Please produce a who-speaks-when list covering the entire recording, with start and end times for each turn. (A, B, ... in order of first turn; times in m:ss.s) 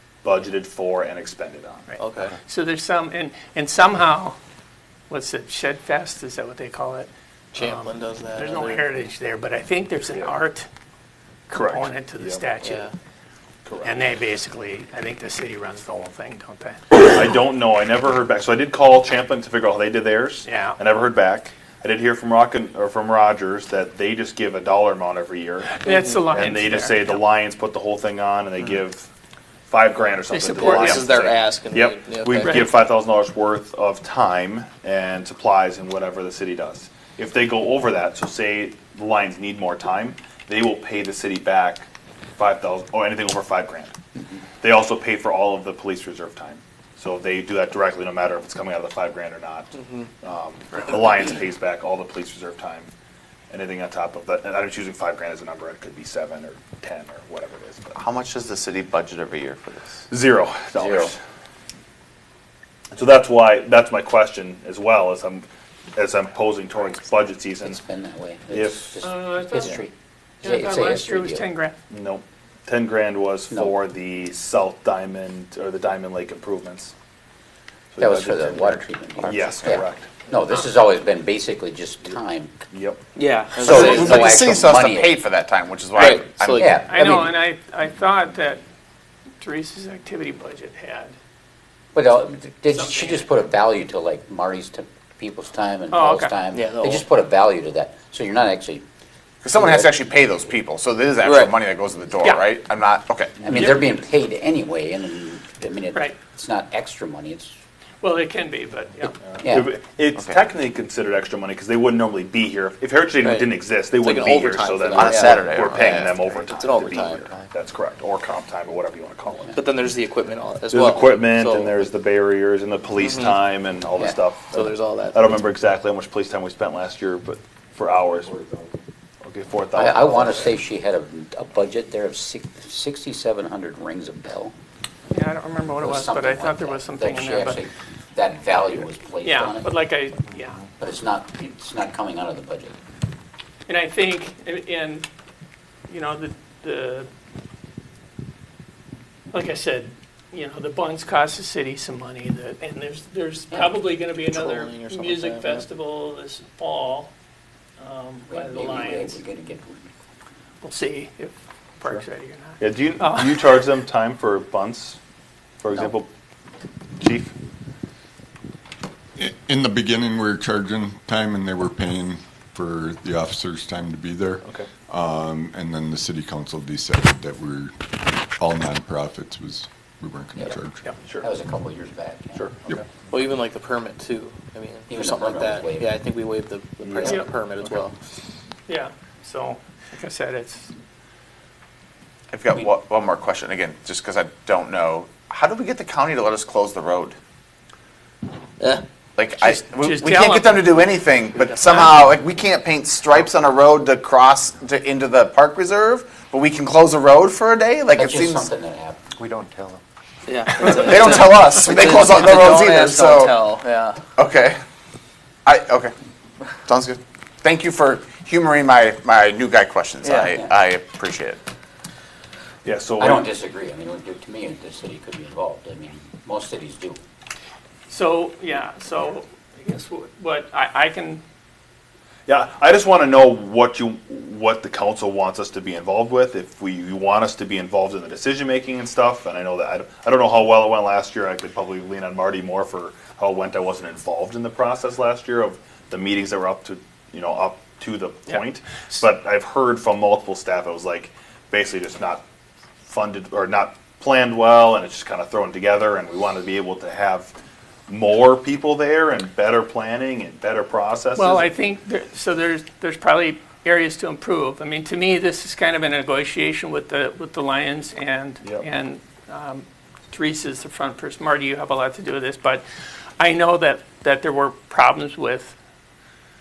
0:00.2-0:01.9 A
0:01.9-0:04.4 B
0:02.0-0:02.4 C
0:05.1-0:10.7 B
0:07.6-0:08.8 C
0:11.5-0:12.9 B
0:11.5-0:12.4 A
0:12.6-0:12.9 C
0:13.7-0:14.0 A
0:13.8-0:16.8 B
0:16.9-0:29.1 A
0:20.5-0:20.8 B
0:25.7-0:27.2 B
0:25.9-0:26.2 C
0:29.7-0:44.0 A
0:30.3-0:31.2 B
0:30.5-0:32.7 C
0:44.6-0:52.9 A
0:53.5-0:58.0 A
0:58.0-1:00.0 D
1:00.1-1:01.2 A
1:00.8-1:01.1 E
1:02.9-1:07.8 A
1:07.6-1:11.4 E
1:08.5-1:09.0 A
1:09.0-1:09.9 B
1:10.4-1:11.8 B
1:11.9-1:16.9 A
1:17.9-1:20.3 A
1:18.0-1:22.6 E
1:19.2-1:19.8 D
1:22.7-1:23.0 A
1:23.2-1:24.3 C
1:23.6-1:25.2 E
1:23.6-1:26.7 D
1:25.9-1:26.8 C
1:26.5-1:27.4 E
1:26.9-1:28.6 B
1:29.4-1:31.2 B
1:31.9-1:38.8 E
1:32.7-1:33.3 B
1:35.9-1:36.3 B
1:36.5-1:37.0 C
1:39.4-1:43.4 D
1:41.2-1:41.5 C
1:42.2-1:42.5 B
1:43.4-1:47.5 E
1:48.0-1:49.2 B
1:49.3-1:59.6 A
1:49.4-1:49.7 E
1:53.2-1:57.3 C
1:54.9-1:56.2 D
1:59.5-2:01.8 C
2:00.7-2:08.4 A
2:03.0-2:03.4 C
2:04.5-2:05.4 C
2:09.2-2:10.5 A
2:09.8-2:14.5 E
2:15.1-2:17.6 B
2:15.8-2:19.7 E
2:19.2-2:20.6 B
2:20.8-2:22.8 E
2:23.7-2:25.1 B
2:25.9-2:27.1 B
2:29.3-2:37.1 B
2:34.3-2:35.7 C
2:37.8-2:39.2 B
2:38.3-2:39.9 E
2:40.6-2:43.5 B
2:42.6-2:45.0 A
2:45.6-2:46.1 A
2:47.0-2:47.3 A
2:49.2-3:00.8 F
2:54.4-2:54.7 A
3:01.2-3:02.5 E
3:02.4-3:02.8 A
3:03.1-3:08.0 C
3:04.9-3:06.0 E
3:06.9-3:07.2 E
3:08.7-3:10.7 B
3:12.3-3:17.2 D
3:19.2-3:28.5 D
3:19.4-3:20.8 B
3:27.9-3:29.2 E
3:30.3-3:34.0 C
3:30.6-3:33.4 D
3:34.2-3:34.6 D
3:35.5-3:35.9 D
3:36.6-3:41.4 D
3:40.0-3:40.3 C
3:42.6-3:43.3 A
3:43.0-3:47.0 E
3:47.9-3:51.2 B
3:52.3-4:12.2 A
4:12.8-4:17.4 A
4:17.9-4:21.5 A
4:21.2-4:32.6 B
4:33.2-4:35.6 B